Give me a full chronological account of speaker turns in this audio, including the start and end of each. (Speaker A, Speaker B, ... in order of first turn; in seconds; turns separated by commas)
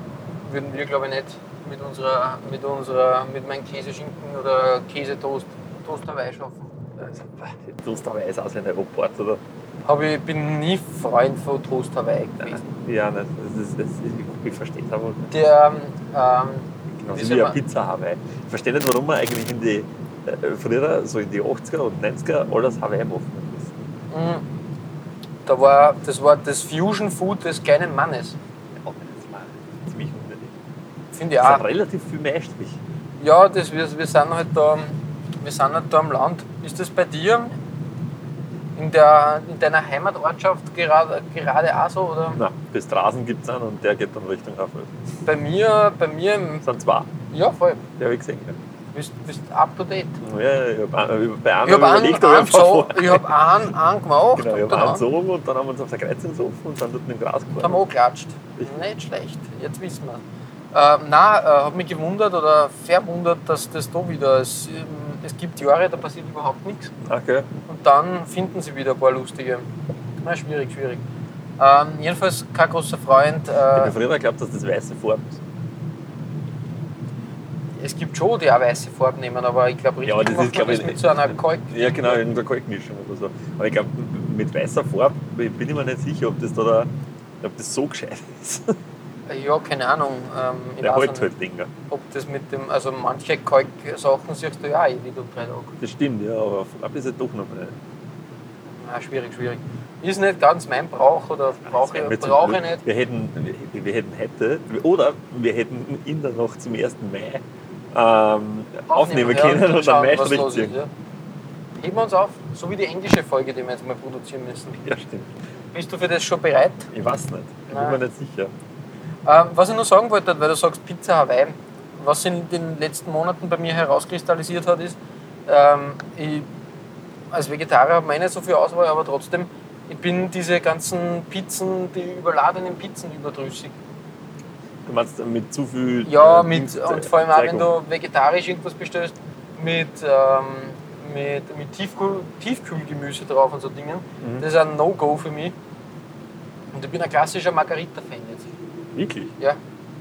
Speaker A: 0.5-6.8, Speaker B: 7.0-9.4, Speaker A: 9.8-12.6, Speaker B: 12.4-15.3, Speaker A: 15.3-17.6, Speaker B: 16.9-23.8, Speaker A: 24.1-24.4, Speaker A: 25.5-28.4, Speaker B: 28.8-30.5, Speaker A: 31.1-31.6, Speaker B: 31.4-32.8, Speaker A: 33.2-37.5, Speaker A: 38.8-42.4, Speaker B: 42.4-44.9, Speaker A: 45.3-46.6, Speaker B: 46.6-47.1, Speaker A: 47.3-47.8, Speaker B: 48.0-48.6, Speaker A: 48.9-50.2, Speaker B: 50.2-53.4, Speaker A: 51.6-55.0, Speaker B: 54.4-57.9, Speaker A: 57.6-67.0, Speaker B: 67.0-67.5, Speaker A: 67.7-69.7, Speaker A: 70.2-71.0, Speaker A: 71.6-73.9, Speaker B: 73.8-75.4, Speaker A: 77.8-82.2, Speaker B: 80.0-86.9, Speaker B: 87.4-88.8, Speaker A: 89.3-91.3, Speaker B: 90.8-91.7, Speaker A: 91.9-95.8, Speaker B: 95.8-97.8, Speaker A: 98.8-102.8, Speaker B: 101.7-110.7, Speaker A: 108.9-110.9, Speaker A: 111.8-114.8, Speaker B: 114.8-115.3, Speaker A: 115.7-116.9, Speaker B: 116.9-118.5, Speaker A: 117.7-118.0, Speaker A: 119.2-126.5, Speaker A: 127.3-133.8, Speaker B: 134.8-137.7, Speaker A: 136.1-145.6, Speaker B: 144.2-144.5, Speaker A: 146.7-148.5, Speaker B: 148.9-149.3